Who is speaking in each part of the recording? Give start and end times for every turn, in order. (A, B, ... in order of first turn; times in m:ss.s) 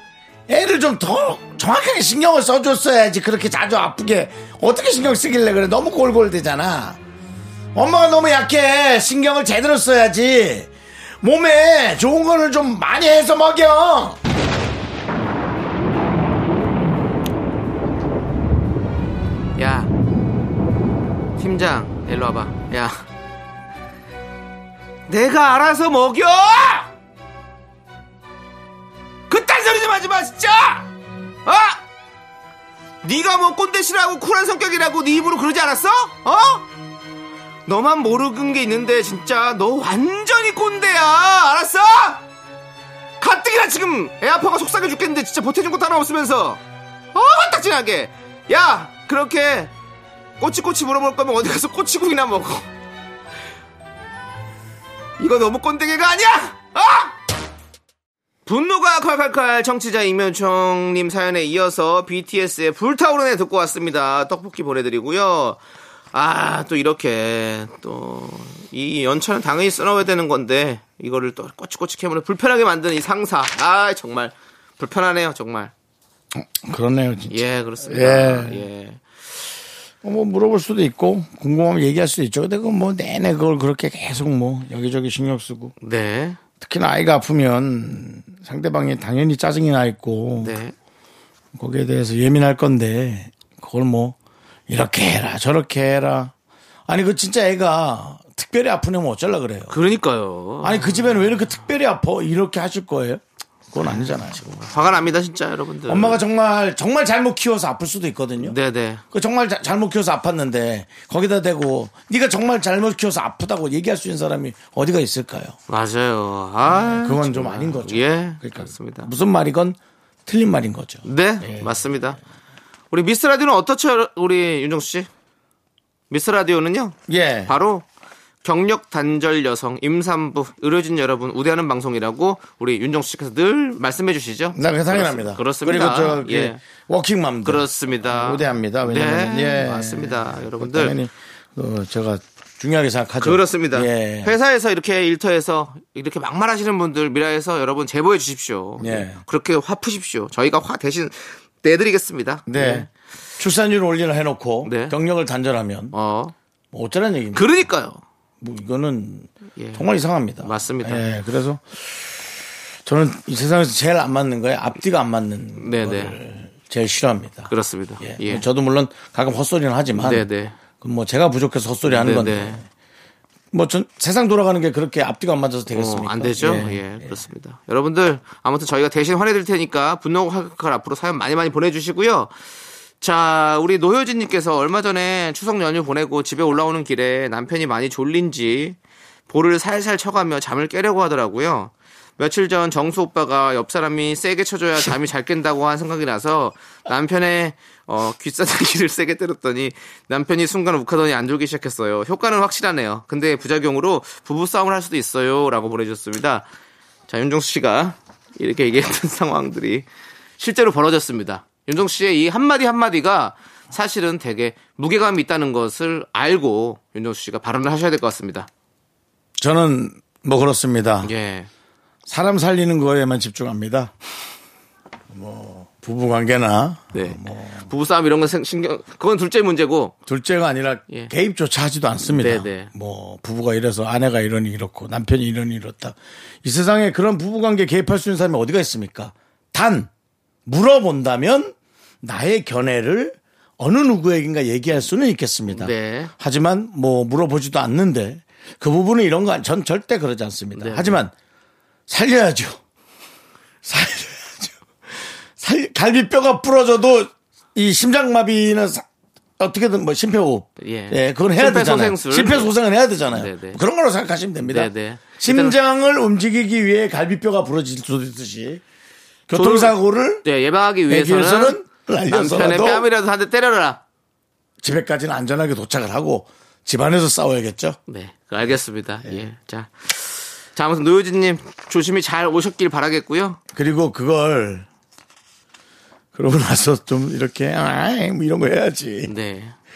0:00.5-0:07.0 A
0:07.8-0:14.2 A
0:19.6-0:19.9 B
0:21.4-0:23.0 B
0:25.1-0:26.9 B
0:29.3-0:30.9 B
0:31.5-0:31.8 B
0:33.0-0:36.6 B
0:37.7-0:42.2 B
0:43.2-0:46.6 B
0:47.1-0:49.7 B
0:50.4-0:52.7 B
0:55.2-0:57.2 B
0:58.5-1:05.6 B
1:06.1-1:15.7 B
1:16.3-1:18.6 A
1:17.3-1:19.0 B
1:20.0-1:25.7 A
1:25.8-1:26.4 B
1:26.6-1:30.6 A
1:30.4-1:30.7 B
1:31.5-1:34.2 A
1:34.7-1:36.3 A
1:36.9-1:39.8 A
1:39.7-1:41.3 B
1:40.6-1:44.8 A
1:43.8-1:46.2 B
1:45.9-1:48.6 A
1:48.4-1:49.0 B
1:49.1-1:55.6 A
1:55.7-1:59.1 B
1:56.7-2:01.7 A
2:01.0-2:02.2 B
2:02.9-2:05.1 B
2:06.1-2:07.8 B
2:07.1-2:07.6 A
2:08.4-2:16.6 B
2:14.5-2:24.4 A
2:17.4-2:21.0 B
2:23.2-2:32.9 B
2:28.8-2:29.2 A
2:32.5-2:36.0 A
2:34.6-2:35.0 B
2:35.9-2:36.3 B
2:36.7-2:37.5 A
2:37.3-2:38.0 B
2:38.4-2:42.1 A
2:39.6-2:39.9 B
2:40.4-2:41.0 B
2:42.8-2:50.3 A
2:45.6-2:46.2 B
2:47.5-2:48.5 B
2:50.0-2:50.6 B
2:50.8-2:52.7 A
2:51.9-2:52.6 B
2:53.5-2:57.2 A
2:55.7-3:02.3 B
3:03.0-3:08.8 B
3:09.3-3:26.5 B
3:27.1-3:29.9 B
3:30.4-3:38.5 B
3:39.4-3:41.1 A
3:41.0-3:41.5 B
3:42.1-3:43.9 A
3:45.1-3:47.7 A
3:46.9-3:49.9 B
3:50.1-3:59.9 A
3:52.1-3:52.7 B
4:00.5-4:11.1 A
4:05.5-4:06.1 B
4:10.6-4:11.0 B
4:11.9-4:12.6 A
4:13.6-4:14.6 A
4:15.4-4:18.9 A
4:19.4-4:28.6 A
4:20.6-4:22.6 B
4:23.1-4:23.6 B
4:24.4-4:25.6 B
4:29.3-4:30.2 A
4:29.3-4:31.6 B
4:30.9-4:32.9 A
4:32.1-4:33.8 B
4:34.6-4:37.8 A
4:37.9-4:43.4 B
4:43.5-4:44.7 A
4:46.2-4:49.1 A
4:49.1-4:49.6 B